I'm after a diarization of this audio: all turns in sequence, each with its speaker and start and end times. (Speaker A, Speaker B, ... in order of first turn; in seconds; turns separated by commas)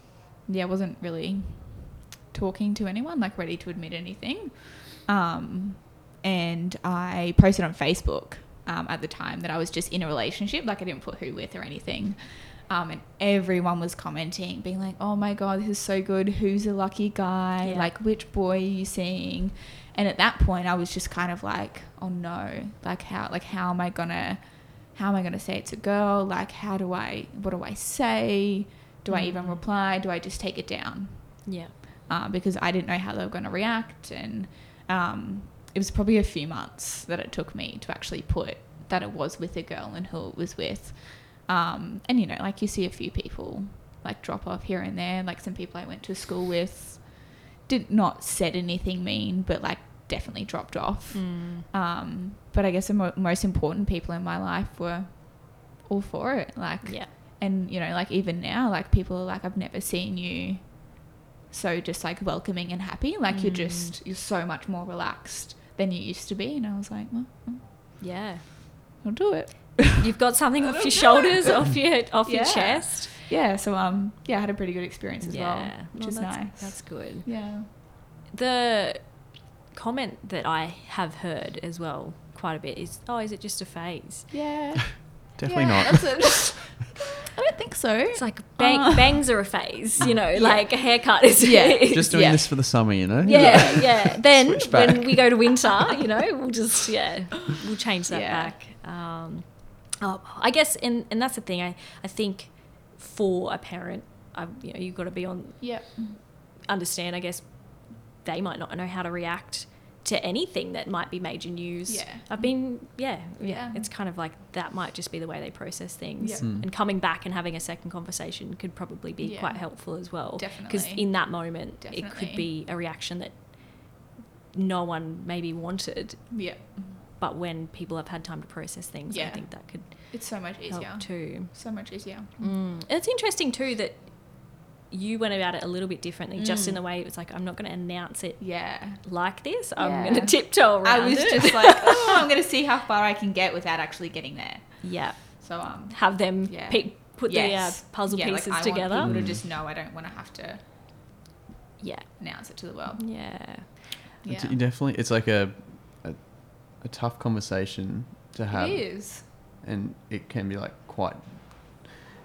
Speaker A: 0.5-61.0, Speaker B: 17.6-17.9, Speaker B: 29.1-29.6, Speaker B: 31.4-31.7, Speaker B: 51.1-51.7, Speaker B: 56.8-57.1, Speaker A: 61.5-68.0, Speaker B: 63.3-64.0, Speaker B: 68.0-68.5, Speaker A: 69.0-71.6, Speaker B: 69.9-73.1, Speaker A: 72.2-77.7, Speaker B: 75.2-77.3, Speaker B: 78.3-84.3, Speaker A: 84.3-89.2, Speaker C: 85.4-86.5, Speaker B: 88.1-92.4, Speaker A: 90.3-93.7, Speaker C: 91.9-95.5, Speaker B: 93.2-124.0, Speaker A: 98.1-98.6, Speaker A: 105.6-106.2, Speaker A: 111.9-113.9, Speaker A: 116.2-116.5, Speaker C: 116.4-116.7, Speaker A: 119.2-122.5, Speaker B: 124.5-126.4, Speaker A: 126.3-127.0, Speaker B: 127.2-131.5, Speaker A: 129.1-132.5, Speaker B: 132.4-142.1, Speaker A: 136.4-136.8, Speaker A: 138.4-139.1, Speaker A: 139.8-150.6, Speaker B: 144.8-149.2, Speaker C: 149.0-149.4, Speaker B: 151.8-152.2, Speaker A: 152.2-154.6, Speaker B: 153.0-153.9, Speaker C: 154.2-159.0, Speaker A: 158.5-159.3, Speaker C: 159.6-161.9